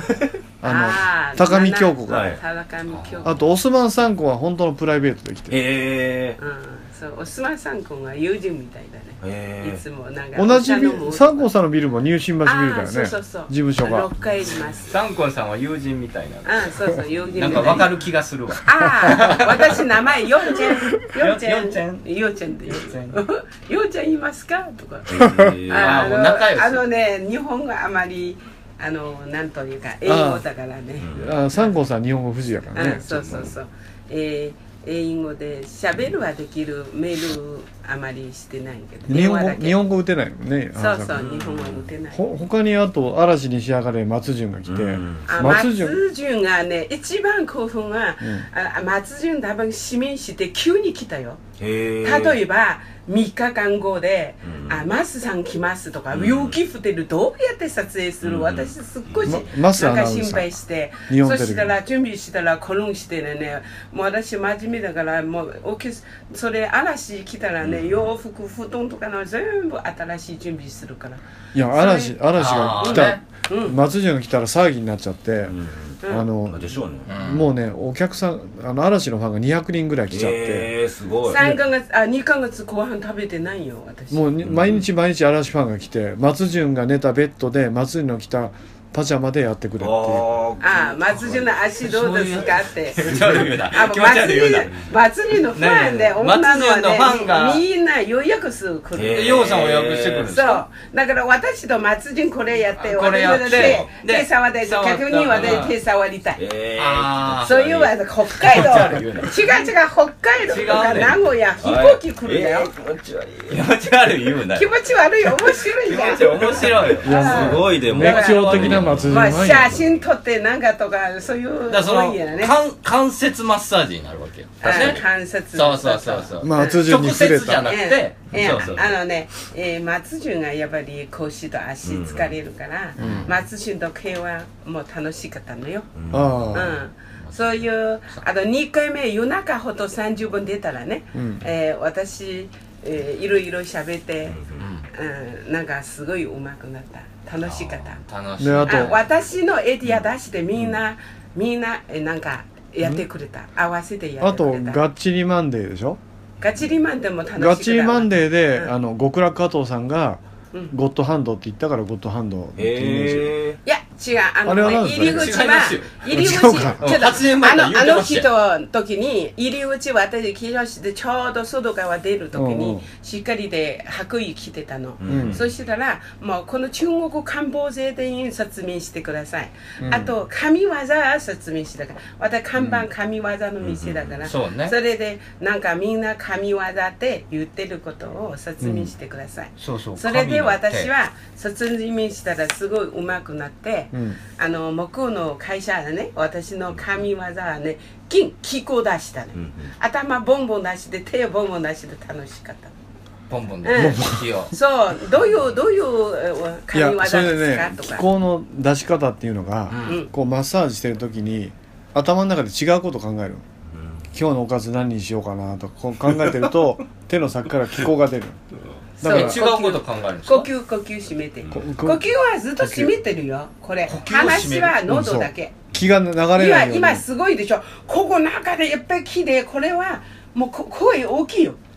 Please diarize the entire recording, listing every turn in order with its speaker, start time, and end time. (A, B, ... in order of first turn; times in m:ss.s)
0:00.6-0:02.4 A
0:00.6-0:03.4 B
0:02.1-0:02.4 C
0:02.9-0:03.3 D
0:03.2-0:05.6 A
0:05.5-0:06.4 C
0:06.4-0:11.5 B
0:09.2-0:09.8 C
0:10.3-0:14.1 A
0:12.4-0:15.0 B
0:14.9-0:16.7 D
0:16.4-0:17.9 B
0:17.3-0:19.8 D
0:18.6-0:25.1 B
0:21.0-0:22.0 D
0:22.6-0:23.2 D
0:25.1-0:26.0 C
0:25.2-0:25.6 A
0:25.7-0:31.7 B
0:25.7-0:26.8 D
0:30.0-0:30.4 A
0:31.0-0:31.3 C
0:31.1-0:33.4 A
0:32.7-0:39.8 B
0:33.1-0:33.5 C
0:39.1-0:41.2 A
0:40.7-0:42.3 B
0:41.2-0:41.9 C
0:42.1-0:46.0 A
0:44.7-0:45.6 C
0:45.2-0:51.4 B
0:51.6-0:52.4 C
0:52.0-1:12.2 B
0:54.4-0:54.9 C
0:56.1-0:56.6 C
0:58.2-0:58.7 C
0:59.2-1:00.5 A
1:01.1-1:01.7 A
1:07.6-1:08.1 C
1:11.5-1:20.7 A
1:12.4-1:13.2 D
1:12.8-1:13.8 B
1:15.4-1:17.1 C
1:17.1-1:17.5 D
1:20.1-1:21.4 C
1:21.3-1:24.3 B
1:21.3-1:21.6 A
1:24.1-1:30.3 A
1:24.4-1:24.8 C
1:29.8-1:31.5 C
1:30.6-1:39.5 B
1:31.8-1:34.7 D
1:35.5-1:37.6 D
1:38.9-1:40.3 C
1:39.1-1:40.6 D
1:40.2-1:46.4 B
1:42.8-1:45.7 D
1:43.5-1:43.8 C
1:45.3-1:45.7 C
1:46.4-1:47.9 C
1:46.8-1:47.6 D
1:47.4-1:52.7 B
1:48.4-1:49.4 D
1:50.5-1:51.2 D
1:51.6-1:53.6 C
1:53.5-1:54.7 D
1:54.5-2:02.5 B
1:55.8-1:57.2 D
1:56.4-1:59.9 C
1:57.0-1:59.8 A
1:58.1-1:59.2 D
2:01.7-2:08.9 D
2:04.6-2:06.9 B
2:04.7-2:05.0 C
2:06.4-2:07.8 A
2:07.6-2:15.9 B
2:11.8-2:12.3 C
2:13.0-2:13.3 A
2:16.0-2:16.6 C
2:16.1-2:16.8 A
2:16.5-2:24.4 B
2:17.2-2:17.7 D
2:21.1-2:21.4 A
2:24.2-2:24.6 C
2:24.6-2:24.9 D
2:24.9-2:28.0 B
2:27.4-2:29.0 D
2:28.4-2:28.9 A
2:28.7-2:34.8 B
2:34.2-2:36.0 A
2:36.4-2:38.7 B
2:37.3-2:43.3 A
2:42.6-2:43.6 C
2:43.6-3:22.7 B
2:44.4-2:45.4 A
2:44.9-2:48.3 D
2:46.1-2:47.0 A
2:52.3-2:52.8 A
2:55.0-2:55.4 C
2:55.0-2:55.4 A
2:59.8-3:00.1 A
3:03.6-3:04.2 C
3:04.2-3:04.7 D
3:08.6-3:08.9 A
3:09.6-3:10.9 D
3:13.9-3:14.2 A
3:19.3-3:19.7 C
3:23.3-3:24.5 D
3:23.6-3:28.0 B
3:23.7-3:24.3 A
3:26.7-3:33.4 A
3:29.7-3:30.0 D
3:29.8-3:30.1 B
3:33.7-3:34.1 C
3:34.1-3:38.4 A
3:39.0-3:39.4 A
3:39.0-3:45.5 B
3:39.0-3:40.5 D
3:41.5-3:42.0 A
3:43.8-3:44.8 D
3:44.9-3:47.0 A
3:46.4-3:51.6 B